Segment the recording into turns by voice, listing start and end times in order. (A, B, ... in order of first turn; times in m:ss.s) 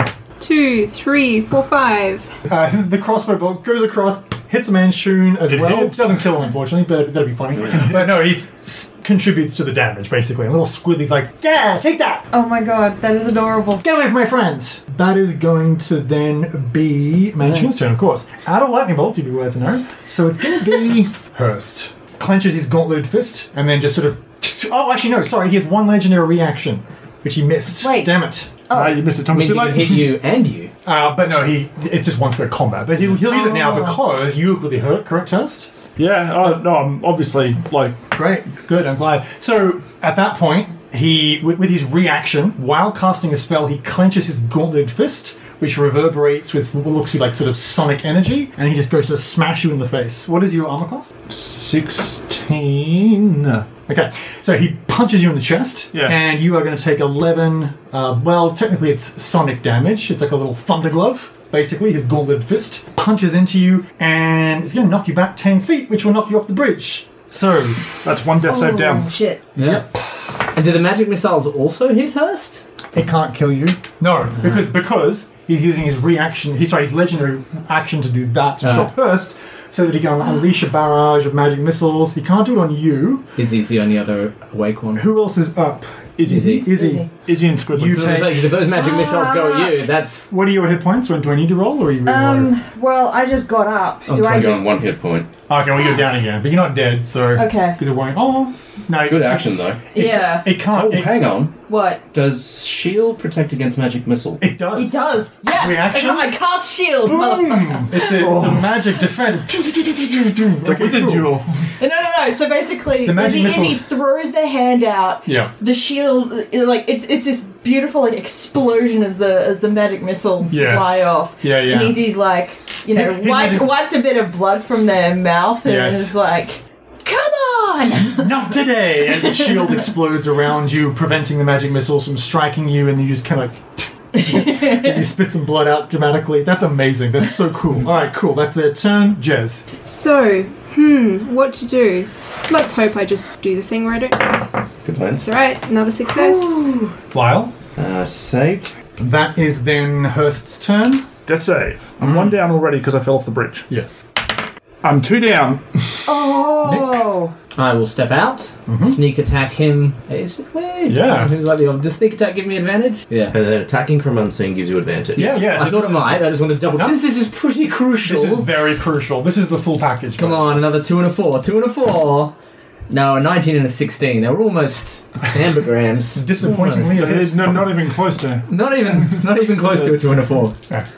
0:00.4-0:02.3 A
0:02.5-0:12.3 B
0:05.5-0:06.1 C
0:07.7-0:08.1 C
0:12.3-0:13.8 D
0:13.8-0:28.6 B
0:27.8-0:28.2 D
0:28.7-0:29.0 D
0:28.7-0:30.2 C
0:29.3-0:30.7 E
0:30.8-0:35.7 B
0:33.2-0:34.0 D
0:36.0-0:38.0 C
0:38.1-0:51.1 B
0:51.3-0:53.7 C
0:53.9-1:07.9 B
1:08.0-1:09.1 C
1:08.4-1:09.4 D
1:09.6-1:09.8 E
1:09.6-1:09.8 B
1:10.4-1:12.6 E
1:12.9-1:23.2 B
1:18.6-1:18.9 E
1:23.4-1:25.1 E
1:24.9-1:27.1 B
1:26.2-1:28.4 C
1:26.2-1:26.6 E
1:26.7-1:27.1 D
1:27.7-1:28.5 B
1:27.9-1:30.3 E
1:28.6-1:29.8 D
1:30.3-1:32.5 B
1:32.0-1:34.7 D
1:34.1-1:34.6 E
1:34.2-1:35.3 F
1:35.5-1:41.3 B
1:37.4-1:37.8 D
1:39.0-1:39.9 F
1:39.9-1:40.6 D
1:40.6-1:41.6 F
1:41.7-1:42.0 D
1:42.1-1:44.4 F
1:44.4-1:46.4 B
1:44.7-1:48.1 D
1:47.0-1:51.4 B
1:48.1-1:48.6 C
1:50.6-1:51.5 C
1:51.8-2:08.4 D
1:53.0-1:53.9 B
1:55.2-1:55.5 B
2:00.5-2:02.0 B
2:02.9-2:03.8 B
2:05.6-2:06.2 B
2:08.0-2:19.6 B
2:09.1-2:09.8 D
2:14.2-2:14.9 D
2:19.8-2:24.5 A
2:24.8-2:25.3 F
2:25.2-2:26.7 A
2:26.1-2:26.9 D
2:27.1-2:27.5 B
2:27.8-2:28.7 F
2:29.0-2:31.1 B
2:31.2-2:33.7 C
2:32.0-2:32.4 B
2:33.7-2:34.0 B
2:34.8-2:36.1 C
2:36.1-2:37.3 D
2:36.6-2:37.0 B
2:37.6-2:43.3 E
2:38.7-2:39.0 B
2:40.9-2:41.3 B
2:43.3-2:45.5 F
2:45.2-2:47.0 B
2:45.2-2:48.5 E
2:48.0-2:50.6 B
2:50.2-2:52.3 E
2:52.9-2:57.1 E
2:56.1-2:57.6 B
2:56.9-2:58.5 C
2:58.5-3:00.6 E